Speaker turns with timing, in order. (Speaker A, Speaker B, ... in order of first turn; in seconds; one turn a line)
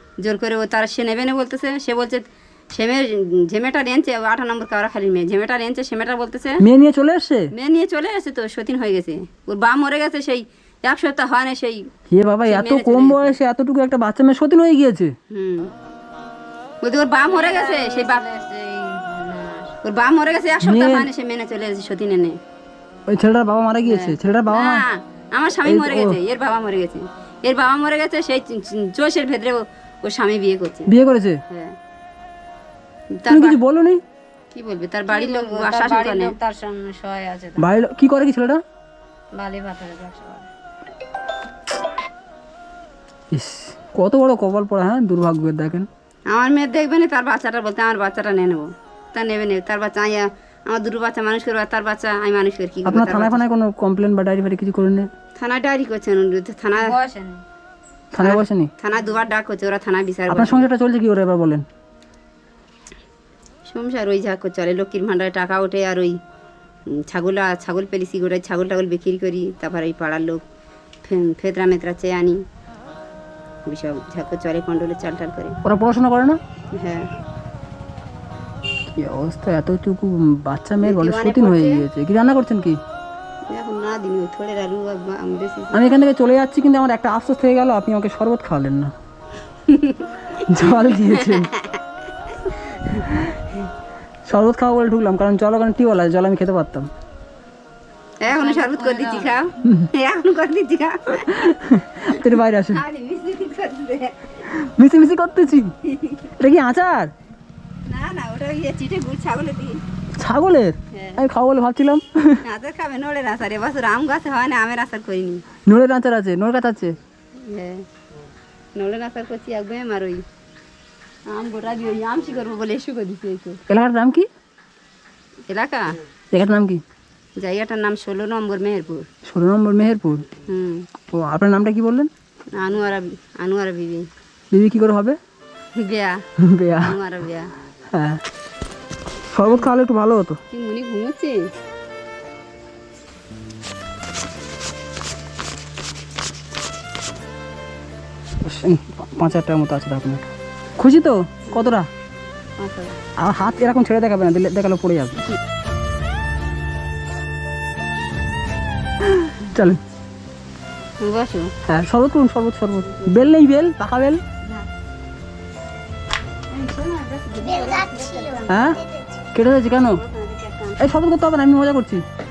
Speaker A: 0.2-6.6
Speaker B: 6.6-7.5
Speaker A: 7.5-11.9
Speaker B: 12.1-15.1
Speaker A: 12.4-13.4
Speaker A: 15.3-15.7
Speaker A: 16.8-18.2
Speaker C: 17.2-19.8
Speaker A: 19.8-22.4
Speaker B: 20.6-21.1
Speaker B: 23.1-24.8
Speaker A: 23.8-30.9
Speaker B: 25.6-26.2
Speaker B: 30.9-31.4
Speaker A: 31.5-31.7
Speaker A: 33.1-33.6
Speaker B: 33.3-34.0
Speaker A: 34.5-36.3
Speaker C: 35.1-37.7
Speaker B: 37.6-38.6
Speaker C: 39.3-40.5
Speaker B: 43.3-45.9
Speaker A: 46.3-53.5
Speaker B: 52.9-55.1
Speaker A: 55.4-56.9
Speaker C: 56.7-57.4
Speaker B: 58.1-58.7
Speaker A: 58.2-60.7
Speaker B: 60.3-61.6
Speaker A: 63.6-66.2
Speaker A: 66.9-70.4
Speaker A: 71.0-72.4
Speaker A: 73.7-75.6
Speaker B: 75.6-76.4
Speaker A: 76.7-77.1
Speaker B: 79.0-82.8
Speaker A: 80.8-81.9
Speaker A: 83.5-85.9
Speaker B: 85.7-88.9
Speaker A: 89.7-91.8
Speaker B: 90.3-91.5
Speaker B: 93.0-93.3
Speaker B: 94.3-96.9
Speaker A: 98.2-101.5
Speaker C: 98.3-99.4
Speaker B: 101.3-102.8
Speaker A: 102.1-104.4
Speaker B: 104.5-105.7
Speaker A: 105.8-106.3
Speaker B: 106.4-107.1
Speaker A: 107.8-109.8
Speaker B: 110.2-112.4
Speaker A: 110.9-111.2
Speaker A: 112.4-115.4
Speaker B: 115.7-116.9
Speaker A: 117.3-117.8
Speaker A: 118.8-120.2
Speaker A: 121.3-123.6
Speaker B: 123.7-124.3
Speaker A: 125.5-126.0
Speaker B: 126.3-126.8
Speaker A: 127.4-129.1
Speaker B: 129.2-130.2
Speaker A: 130.4-130.9
Speaker B: 131.1-132.1
Speaker A: 132.5-134.1
Speaker B: 134.5-135.2
Speaker A: 135.8-137.5
Speaker B: 136.4-136.9
Speaker B: 137.9-138.2
Speaker B: 139.3-140.4
Speaker A: 140.5-141.4
Speaker B: 148.4-151.9
Speaker A: 151.5-151.7
Speaker A: 152.6-153.0
Speaker B: 153.2-155.2
Speaker B: 159.1-159.8
Speaker A: 161.0-161.5
Speaker B: 161.7-164.2
Speaker A: 162.9-163.3
Speaker A: 166.5-168.7
Speaker B: 168.5-168.8
Speaker B: 169.3-170.0
Speaker A: 169.6-170.8
Speaker B: 170.8-172.0